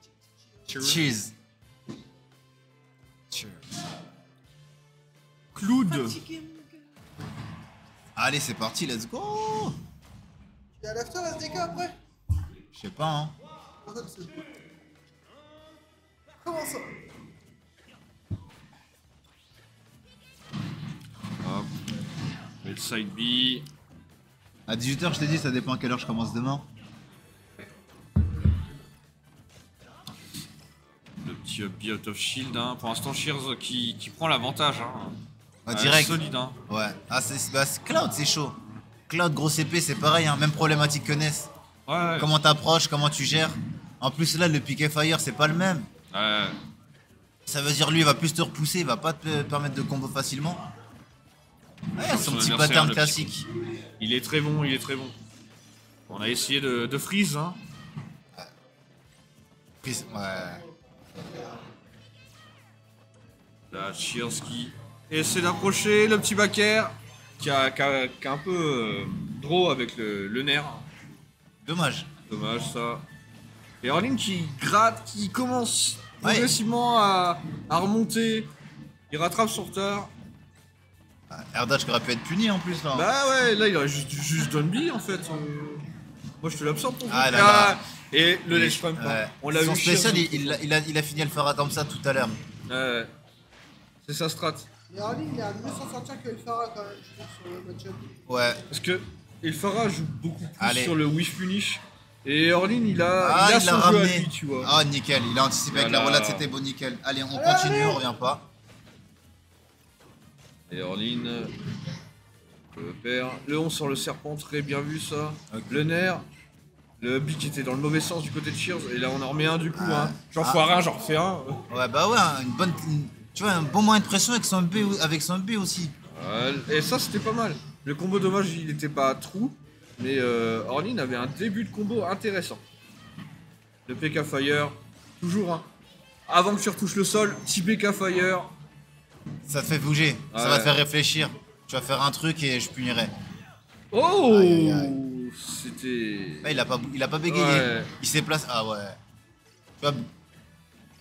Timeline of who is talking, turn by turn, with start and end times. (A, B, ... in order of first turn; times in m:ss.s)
0:00.7-0:01.3 A
0:00.7-0:01.0 B
0:05.5-0:06.2 B
0:06.0-0:06.6 C
0:08.2-0:09.8 A
0:10.8-0:11.9 C
0:12.7-0:13.4 A
0:13.8-0:14.4 C
0:16.4-0:16.9 C
0:21.4-0:21.7 B
0:22.6-0:23.6 B
0:24.7-0:26.6 A
0:31.2-0:35.2 B
0:35.7-0:38.6 A
0:35.7-0:36.6 B
0:39.1-0:41.5 A
0:41.9-0:42.3 B
0:42.2-0:45.9 A
0:46.1-0:46.6 B
0:47.5-0:50.6 A
0:52.0-0:53.5 A
0:52.0-0:53.3 B
0:54.0-0:55.2 B
0:56.1-0:57.6 B
0:59.8-1:00.6 A
1:01.2-1:01.4 A
1:03.7-1:10.8 B
1:11.6-1:12.1 A
1:12.3-1:13.0 B
1:13.8-1:18.5 B
1:16.2-1:16.5 A
1:19.1-1:20.1 B
1:21.3-1:23.1 A
1:22.9-1:25.8 B
1:26.4-1:30.6 B
1:27.1-1:27.8 A
1:28.5-1:32.4 A
1:32.7-1:33.1 B
1:34.0-1:34.7 B
1:34.9-1:38.1 C
1:38.3-1:38.6 A
1:38.7-1:44.7 B
1:40.6-1:41.0 A
1:43.2-1:48.4 A
1:45.7-1:46.5 B
1:47.3-1:48.0 C
1:50.7-1:51.5 B
1:52.8-1:56.2 B
1:55.5-1:55.8 A
1:57.0-2:01.6 B
1:59.7-2:00.6 A
2:01.7-2:05.9 A
2:06.1-2:12.6 B
2:13.9-2:15.7 B
2:16.3-2:18.5 B
2:19.5-2:23.1 A
2:20.3-2:20.8 B
2:23.9-2:26.6 B
2:24.3-2:25.0 A
2:26.4-2:29.0 A
2:27.3-2:27.9 B
2:29.8-2:30.1 A